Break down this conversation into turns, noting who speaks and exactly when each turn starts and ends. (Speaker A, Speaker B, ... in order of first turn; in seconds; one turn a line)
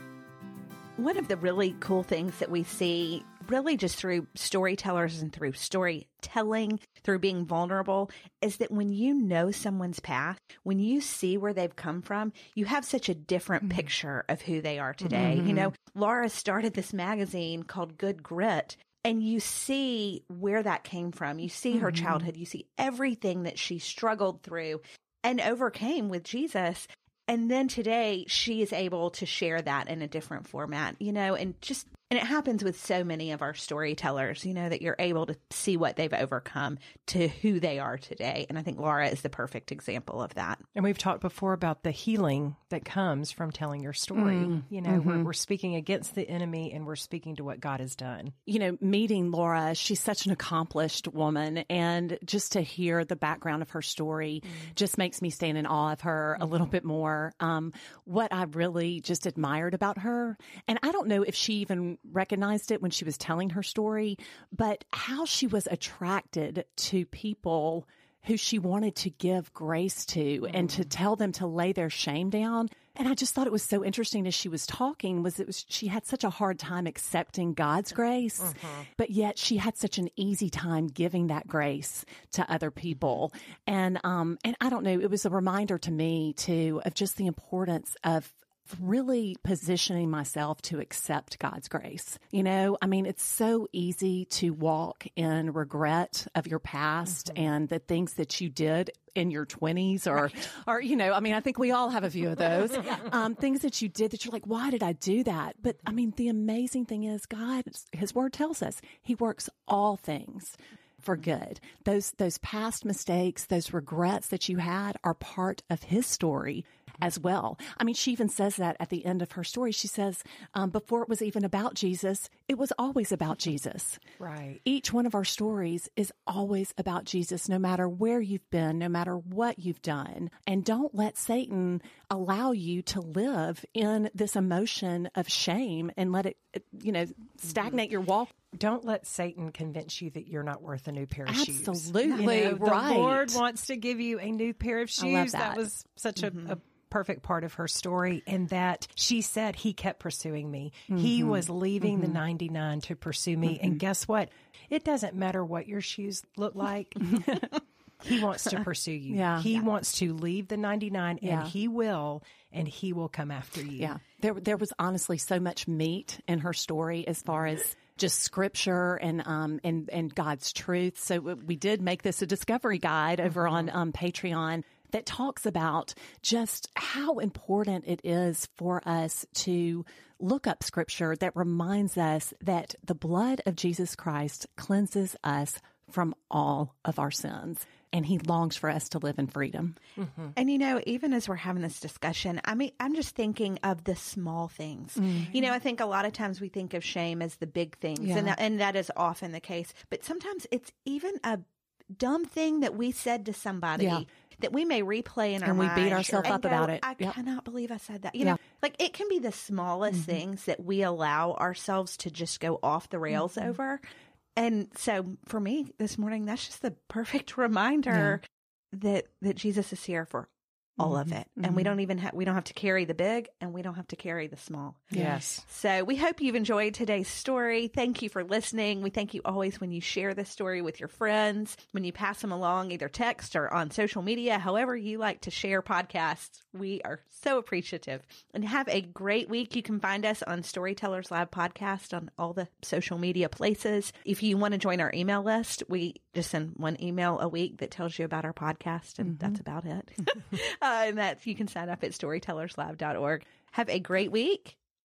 Speaker A: 1.0-40.6
Speaker B: 15.0-15.7
Speaker B: 21.7-22.3
Speaker C: 40.7-48.3
Speaker B: 44.1-45.3
Speaker B: 48.4-124.0
Speaker C: 70.5-70.9
Speaker C: 78.4-78.8
Speaker C: 124.2-124.6
Speaker B: 124.6-138.3
Speaker C: 138.5-164.0
Speaker B: 141.2-143.4
Speaker A: 142.0-142.5
Speaker B: 145.0-145.7
Speaker B: 150.9-152.2
Speaker B: 153.4-153.8
Speaker B: 157.1-157.4
Speaker B: 159.1-159.5
Speaker B: 161.2-161.5
Speaker B: 163.8-189.8
Speaker C: 190.0-190.3
Speaker A: 190.3-201.4
Speaker B: 195.0-195.3
Speaker B: 198.0-198.3
Speaker A: 201.9-213.8
Speaker B: 203.8-204.1
Speaker B: 205.4-207.2
Speaker B: 209.9-210.2
Speaker A: 214.3-254.6
Speaker B: 217.9-218.2
Speaker B: 220.8-221.8
Speaker B: 224.9-225.2
Speaker C: 224.9-225.4
Speaker B: 249.0-249.4